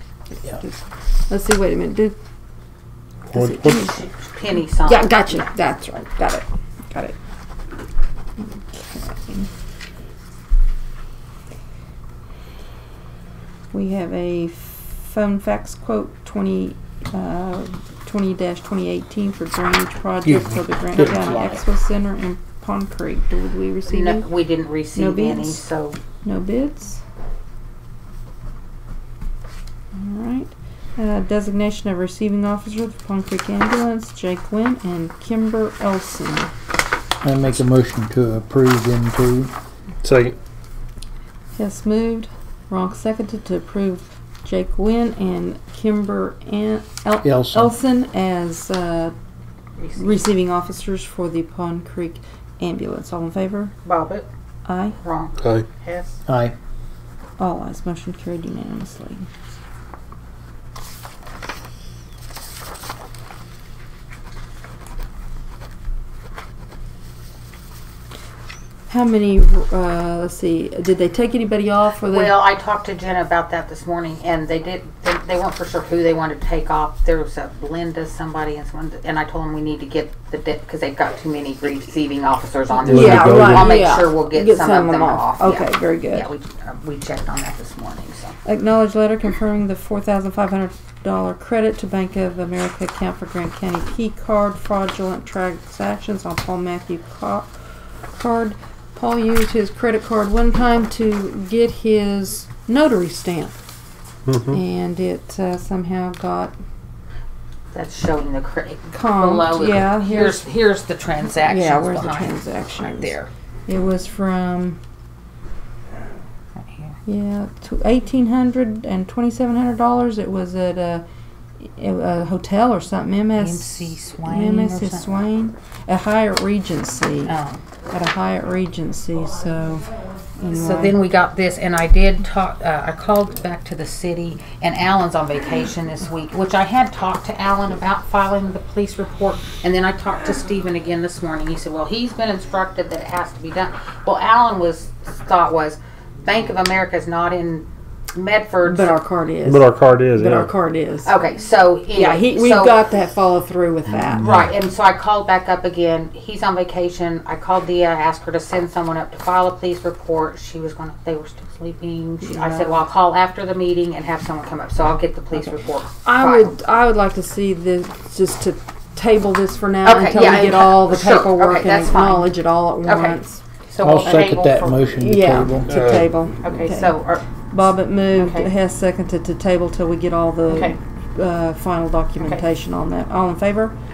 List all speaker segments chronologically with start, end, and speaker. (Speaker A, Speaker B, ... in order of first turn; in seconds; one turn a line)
Speaker A: 0.3-2.1
Speaker B: 3.3-3.9
Speaker A: 3.3-4.0
Speaker C: 3.9-5.4
Speaker A: 4.8-7.2
Speaker A: 8.4-9.5
Speaker A: 13.7-24.2
Speaker D: 20.2-21.6
Speaker C: 23.9-26.0
Speaker A: 24.9-25.6
Speaker A: 26.2-27.0
Speaker A: 29.9-36.5
Speaker D: 37.2-39.5
Speaker B: 40.0-40.4
Speaker A: 41.6-49.1
Speaker D: 47.2-47.7
Speaker C: 49.8-50.1
Speaker A: 50.0-53.7
Speaker C: 53.8-54.3
Speaker A: 54.6-55.0
Speaker C: 55.0-56.1
Speaker D: 56.3-56.5
Speaker A: 57.4-59.3
Speaker A: 68.9-72.3
Speaker C: 72.0-88.3
Speaker A: 82.8-86.3
Speaker B: 82.8-83.8
Speaker A: 88.4-97.5
Speaker A: 98.2-103.5
Speaker B: 104.3-104.5
Speaker A: 104.4-106.5
Speaker C: 107.7-113.3
Speaker A: 108.9-110.5
Speaker A: 111.4-113.2
Speaker A: 113.7-114.8
Speaker C: 116.6-117.0
Speaker A: 117.1-121.0
Speaker A: 121.6-127.3
Speaker C: 123.4-125.2
Speaker C: 127.2-127.6
Speaker A: 127.9-129.9
Speaker A: 130.4-131.0
Speaker C: 130.5-149.0
Speaker A: 148.6-151.1
Speaker B: 149.4-150.5
Speaker C: 151.0-152.8
Speaker A: 151.9-154.3
Speaker C: 154.2-166.6
Speaker B: 154.2-154.4
Speaker A: 162.2-162.8
Speaker A: 165.4-173.4
Speaker C: 169.8-174.9
Speaker D: 173.8-176.0
Speaker A: 174.9-177.0
Speaker B: 175.7-176.1
Speaker C: 176.4-177.3
Speaker A: 177.5-183.7
Speaker C: 178.1-178.5
Speaker C: 180.5-180.8